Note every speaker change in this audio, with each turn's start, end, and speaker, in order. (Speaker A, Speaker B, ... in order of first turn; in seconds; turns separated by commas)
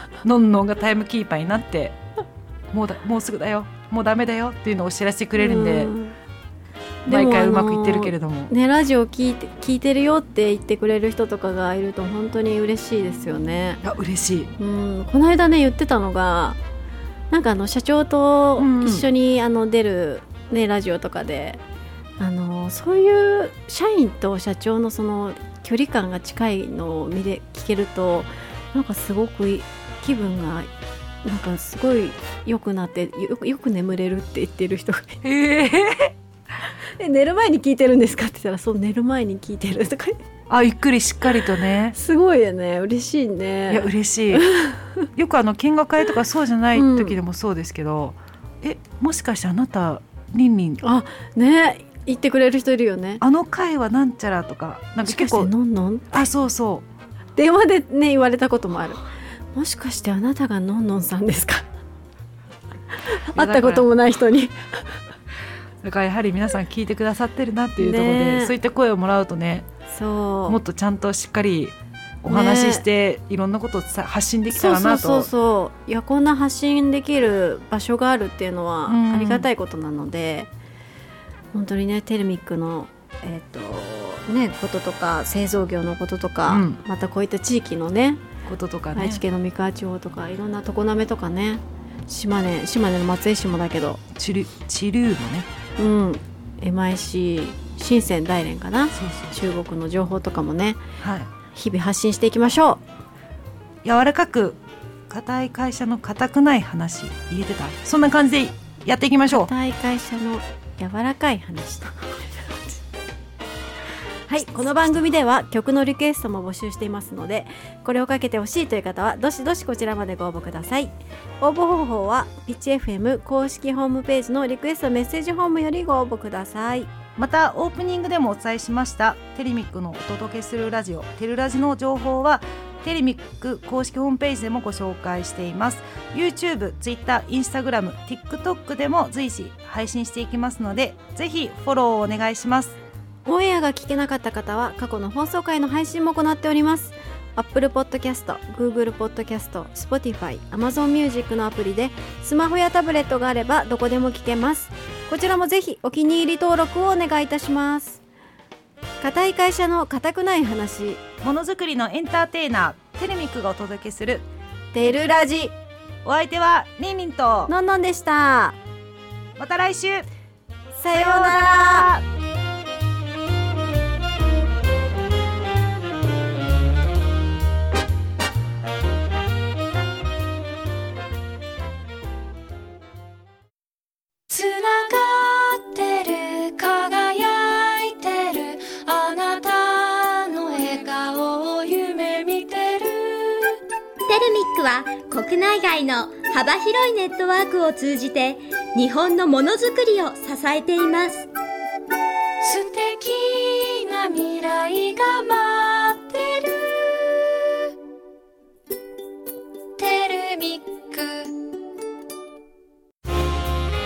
Speaker A: 0.2-2.0, Speaker A: 2.7-5.9, Speaker B: 5.4-6.2, Speaker B: 7.1-13.8, Speaker A: 7.1-8.5, Speaker A: 13.8-14.5, Speaker B: 14.6-16.6, Speaker B: 17.3-21.6, Speaker A: 18.6-19.1, Speaker B: 22.2-30.7, Speaker B: 31.2-35.2, Speaker A: 35.2-36.1, Speaker B: 37.0-40.2, Speaker A: 40.5-42.0, Speaker B: 42.0-45.1, Speaker A: 43.7-44.5, Speaker A: 45.1-50.8, Speaker B: 46.8-47.2, Speaker B: 50.8-53.2, Speaker A: 53.2-55.5, Speaker B: 55.1-56.3, Speaker A: 56.1-56.9, Speaker B: 57.4-59.0, Speaker B: 59.5-61.7, Speaker B: 62.9-64.9, Speaker A: 63.3-63.9, Speaker A: 65.8-69.7, Speaker B: 67.8-68.5, Speaker B: 69.9-70.6, Speaker A: 70.5-75.3, Speaker B: 72.3-72.8, Speaker B: 74.5-80.5, Speaker A: 78.9-79.5, Speaker B: 81.5-88.2, Speaker A: 86.5-86.8, Speaker A: 88.5-89.2, Speaker B: 89.0-94.0, Speaker A: 94.2-95.5, Speaker B: 95.8-100.8, Speaker A: 99.0-99.3, Speaker A: 101.0-101.3, Speaker B: 101.5-102.8, Speaker A: 103.8-104.6, Speaker A: 105.1-109.5, Speaker B: 109.3-112.7, Speaker B: 114.3-126.9, Speaker A: 114.4-115.1, Speaker A: 127.2-142.8, Speaker B: 143.3-158.0, Speaker B: 159.0-161.0, Speaker A: 161.2-164.3, Speaker B: 164.7-165.6, Speaker A: 166.0-167.5, Speaker B: 167.5-168.6, Speaker A: 169.4-170.1, Speaker B: 170.8-171.9, Speaker A: 170.9-172.0, Speaker C: 184.3-193.6, Speaker D: 194.1-201.3, Speaker C: 202.4-206.9, Speaker C: 209.8-211.4